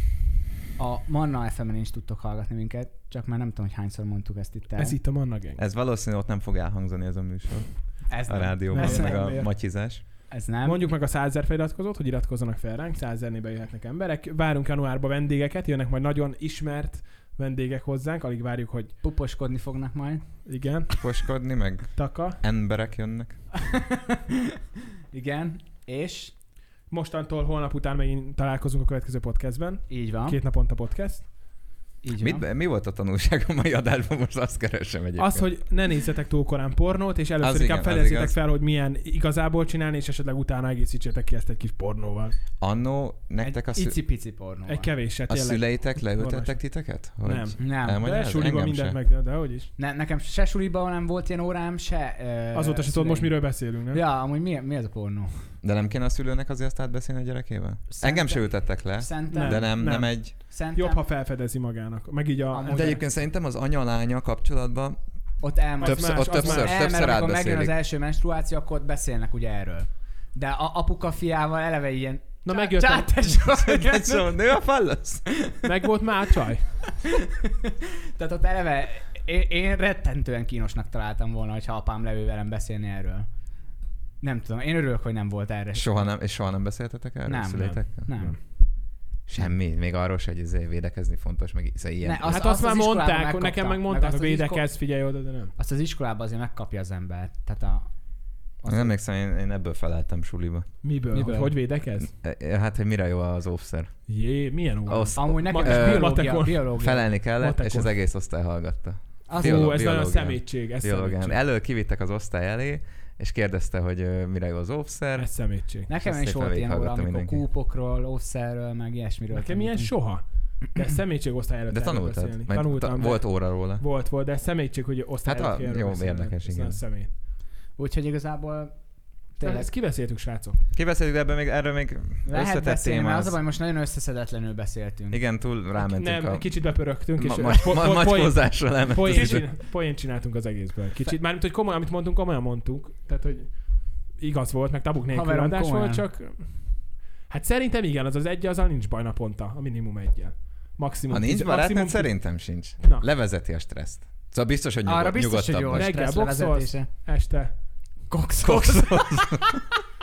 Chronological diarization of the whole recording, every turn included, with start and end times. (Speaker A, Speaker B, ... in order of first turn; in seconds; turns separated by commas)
Speaker A: 0.8-5.0, Speaker B: 4.8-5.6, Speaker C: 5.5-10.0, Speaker A: 8.1-9.2, Speaker B: 8.7-9.5, Speaker A: 10.3-10.8, Speaker B: 10.6-18.9, Speaker A: 19.0-20.3, Speaker B: 20.4-21.1, Speaker C: 21.0-23.4, Speaker B: 21.9-22.4, Speaker A: 23.7-24.4, Speaker A: 25.1-26.3, Speaker B: 26.9-31.3, Speaker A: 29.9-30.4, Speaker A: 32.0-32.4, Speaker C: 32.2-35.5, Speaker B: 35.2-42.4, Speaker C: 37.4-38.3, Speaker C: 42.6-44.0, Speaker A: 43.4-44.9, Speaker B: 44.7-49.7, Speaker C: 45.3-49.0, Speaker A: 47.6-48.1, Speaker A: 49.8-55.3, Speaker B: 52.5-54.0, Speaker C: 55.6-60.3, Speaker A: 57.9-61.0, Speaker B: 59.3-62.9, Speaker A: 62.5-63.0, Speaker C: 62.7-65.0, Speaker A: 65.4-74.3, Speaker B: 65.8-66.8, Speaker C: 65.8-67.7, Speaker B: 72.4-73.4, Speaker C: 73.5-75.4, Speaker B: 75.6-76.7, Speaker A: 77.1-83.3, Speaker A: 84.2-86.1, Speaker C: 85.7-88.1, Speaker A: 87.3-88.4, Speaker B: 87.5-88.3, Speaker C: 89.3-92.4, Speaker A: 92.0-94.6, Speaker B: 92.3-95.5, Speaker A: 95.6-97.9, Speaker A: 98.6-98.9, Speaker C: 98.7-100.7, Speaker B: 100.8-102.1, Speaker A: 101.1-101.5, Speaker C: 102.1-104.0, Speaker B: 104.1-107.9, Speaker C: 104.9-115.3, Speaker A: 105.1-107.0, Speaker A: 109.3-109.8, Speaker B: 109.3-111.4, Speaker B: 115.2-115.9, Speaker C: 115.9-117.4, Speaker A: 115.9-119.9, Speaker B: 119.3-127.1, Speaker C: 121.7-123.8, Speaker C: 125.2-126.8, Speaker A: 127.8-128.7, Speaker A: 129.3-129.7, Speaker B: 129.4-130.6, Speaker C: 130.7-133.3, Speaker A: 132.2-135.2, Speaker C: 135.1-139.4, Speaker B: 135.9-143.6, Speaker B: 144.2-146.6, Speaker A: 145.1-146.1, Speaker B: 147.3-153.1, Speaker C: 151.1-155.9, Speaker A: 154.8-156.9, Speaker B: 155.7-157.5, Speaker A: 158.1-159.6, Speaker C: 158.4-159.6